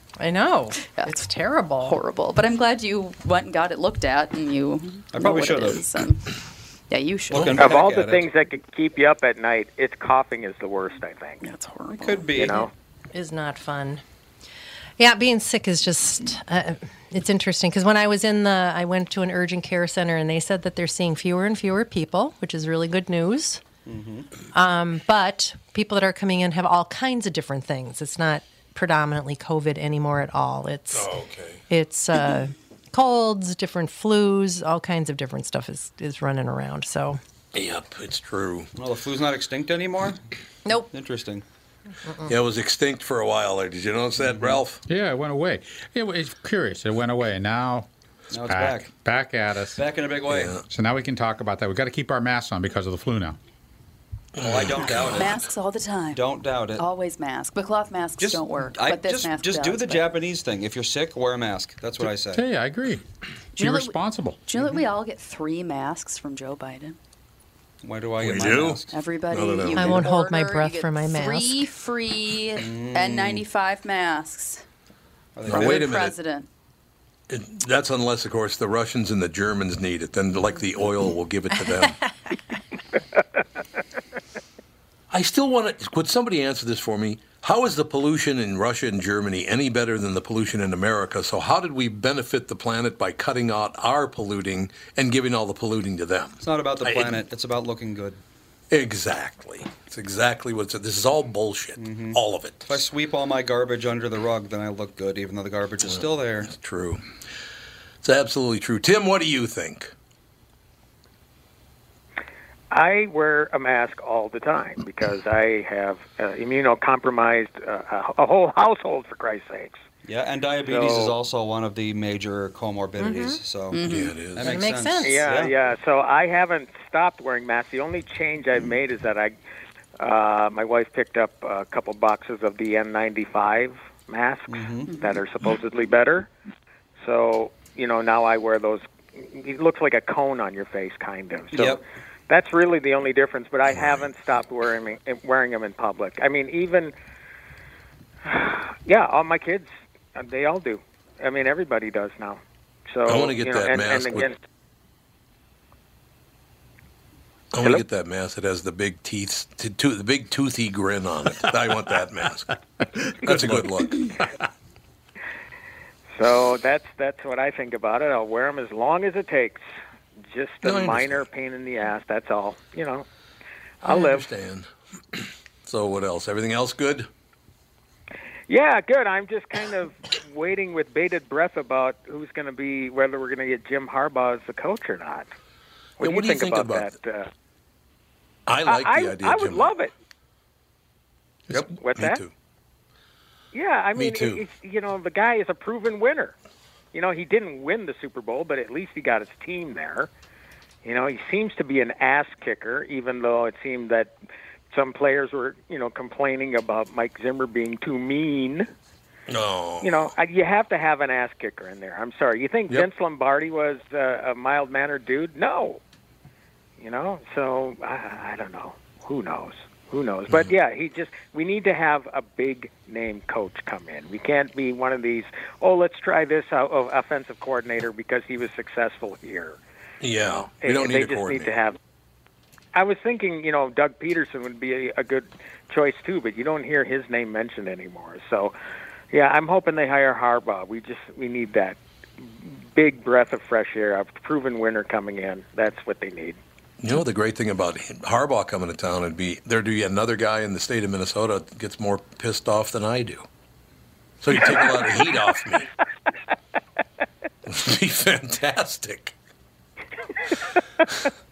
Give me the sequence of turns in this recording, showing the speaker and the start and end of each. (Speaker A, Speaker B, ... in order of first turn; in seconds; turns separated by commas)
Speaker A: 0.2-2.0, Speaker B: 0.9-1.1, Speaker B: 1.8-6.3, Speaker C: 5.1-5.9, Speaker B: 6.9-7.7, Speaker C: 7.3-8.3, Speaker D: 7.6-11.4, Speaker B: 11.4-12.4, Speaker C: 11.9-12.7, Speaker D: 12.4-12.7, Speaker A: 13.1-14.0, Speaker A: 15.0-23.6, Speaker C: 23.9-24.3, Speaker A: 24.5-31.1, Speaker E: 30.9-31.6, Speaker A: 31.7-37.2, Speaker E: 37.5-38.7, Speaker C: 38.8-40.2, Speaker C: 40.9-41.4, Speaker E: 42.3-44.8, Speaker C: 44.2-44.6, Speaker F: 44.9-47.9, Speaker C: 48.3-48.9, Speaker F: 48.5-49.8, Speaker C: 49.8-50.6, Speaker E: 50.3-50.6, Speaker F: 50.7-53.4, Speaker E: 54.4-55.3, Speaker C: 54.4-55.4, Speaker B: 54.8-56.3, Speaker C: 56.1-56.8, Speaker B: 56.8-60.1, Speaker C: 58.2-62.5, Speaker F: 62.0-63.0, Speaker F: 63.6-64.4, Speaker B: 63.6-67.0, Speaker C: 67.8-69.0, Speaker E: 68.2-70.0, Speaker B: 68.9-74.6, Speaker A: 69.7-71.7, Speaker C: 72.6-73.5, Speaker C: 75.3-76.1, Speaker B: 75.5-76.5, Speaker E: 75.5-76.1, Speaker E: 77.3-82.0, Speaker E: 85.1-97.2, Speaker C: 96.4-98.2, Speaker E: 98.7-102.8, Speaker C: 101.8-106.5, Speaker E: 105.8-107.0, Speaker E: 108.0-109.9, Speaker D: 112.7-119.8, Speaker C: 120.1-125.5, Speaker D: 120.7-121.2, Speaker A: 123.0-123.4, Speaker B: 123.7-124.2, Speaker E: 123.9-124.5, Speaker A: 124.4-125.3, Speaker D: 125.0-129.3, Speaker D: 130.0-136.3, Speaker C: 134.5-134.9, Speaker B: 134.9-135.2, Speaker D: 137.0-146.9, Speaker C: 141.5-141.8, Speaker E: 143.7-144.1, Speaker D: 148.2-154.4, Speaker E: 153.1-154.3, Speaker E: 157.5-164.2, Speaker D: 166.2-169.6, Speaker D: 170.3-173.1, Speaker E: 170.6-171.2, Speaker D: 173.8-174.3, Speaker E: 173.9-177.1, Speaker D: 178.5-185.3, Speaker D: 186.0-187.3, Speaker E: 186.0-186.9, Speaker E: 188.5-189.7, Speaker D: 188.7-189.9, Speaker E: 191.5-192.3, Speaker D: 191.8-192.2, Speaker D: 193.5-196.3, Speaker E: 194.0-194.4, Speaker D: 196.9-200.1, Speaker D: 200.8-204.1, Speaker D: 204.7-208.7, Speaker E: 209.3-209.9, Speaker D: 209.8-215.8, Speaker D: 216.8-229.6, Speaker E: 230.0-231.5, Speaker D: 230.2-231.8, Speaker D: 232.7-238.5, Speaker D: 239.1-246.4, Speaker E: 246.8-253.3, Speaker E: 254.2-255.7, Speaker D: 254.4-254.8, Speaker E: 257.5-259.1